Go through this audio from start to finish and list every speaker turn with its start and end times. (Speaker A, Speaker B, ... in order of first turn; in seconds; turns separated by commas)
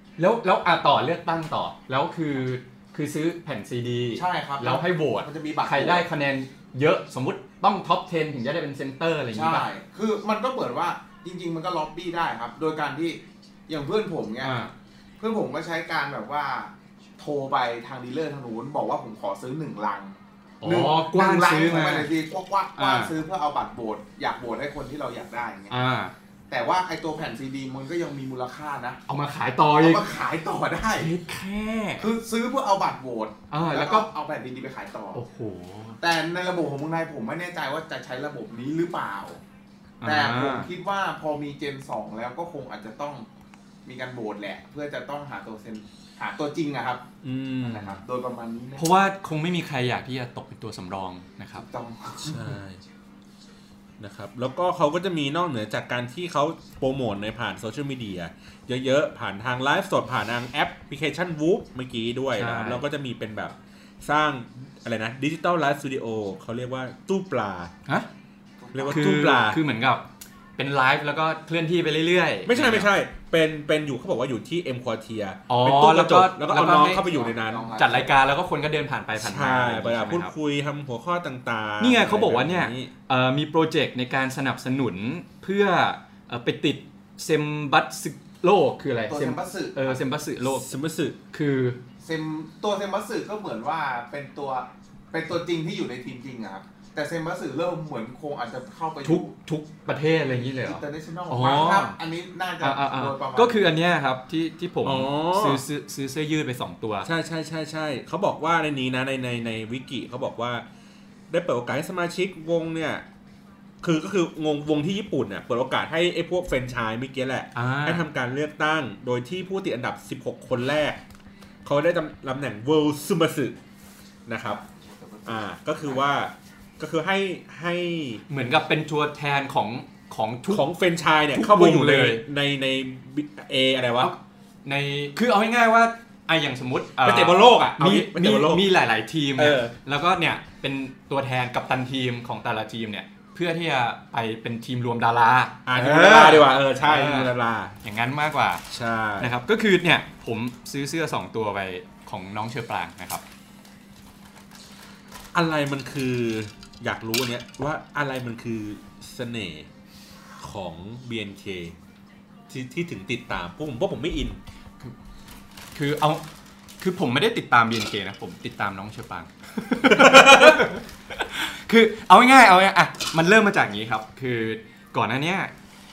Speaker A: 0.2-9.7, Speaker B: 4.2-6.0, Speaker B: 9.3-14.5, Speaker A: 14.4-14.7, Speaker B: 15.2-25.8, Speaker A: 20.6-22.1, Speaker A: 22.8-23.1, Speaker A: 25.7-26.1, Speaker B: 26.5-29.0, Speaker A: 29.1-30.0, Speaker B: 29.8-31.1, Speaker A: 30.9-32.1, Speaker B: 32.0-35.2, Speaker A: 33.5-34.0, Speaker A: 35.1-36.0, Speaker B: 36.0-39.4, Speaker A: 40.0-40.7, Speaker B: 40.0-43.2, Speaker B: 43.8-47.0, Speaker C: 47.2-48.0, Speaker B: 47.6-48.9, Speaker A: 48.8-51.6, Speaker B: 51.6-52.5, Speaker C: 52.2-52.8, Speaker C: 54.0-67.7, Speaker A: 62.3-62.8, Speaker B: 68.6-69.2, Speaker C: 68.7-69.6, Speaker A: 68.9-72.9, Speaker C: 72.5-77.7, Speaker A: 75.5-77.0, Speaker B: 76.8-78.1, Speaker A: 77.8-80.3, Speaker C: 79.2-82.9, Speaker A: 81.8-90.7, Speaker B: 89.1-90.0, Speaker C: 90.4-91.2, Speaker A: 91.3-91.8, Speaker B: 92.0-99.3, Speaker A: 99.0-101.9, Speaker B: 100.6-103.7, Speaker A: 102.6-107.1, Speaker C: 104.8-105.6, Speaker C: 107.0-110.6, Speaker C: 111.3-113.0, Speaker C: 113.8-121.0, Speaker A: 117.5-118.0, Speaker C: 121.6-123.6, Speaker C: 124.3-124.6, Speaker B: 124.5-126.0, Speaker C: 125.2-128.2, Speaker A: 128.3-130.6, Speaker C: 130.5-134.1, Speaker A: 131.3-132.2, Speaker A: 134.0-147.3, Speaker C: 137.0-138.7, Speaker C: 139.3-139.7, Speaker C: 145.7-147.8, Speaker A: 147.8-148.7, Speaker C: 148.7-149.3, Speaker A: 149.2-153.2, Speaker C: 155.3-159.7, Speaker C: 160.4-161.8, Speaker C: 162.5-164.4, Speaker A: 165.7-166.2, Speaker A: 166.8-175.5, Speaker C: 169.8-170.7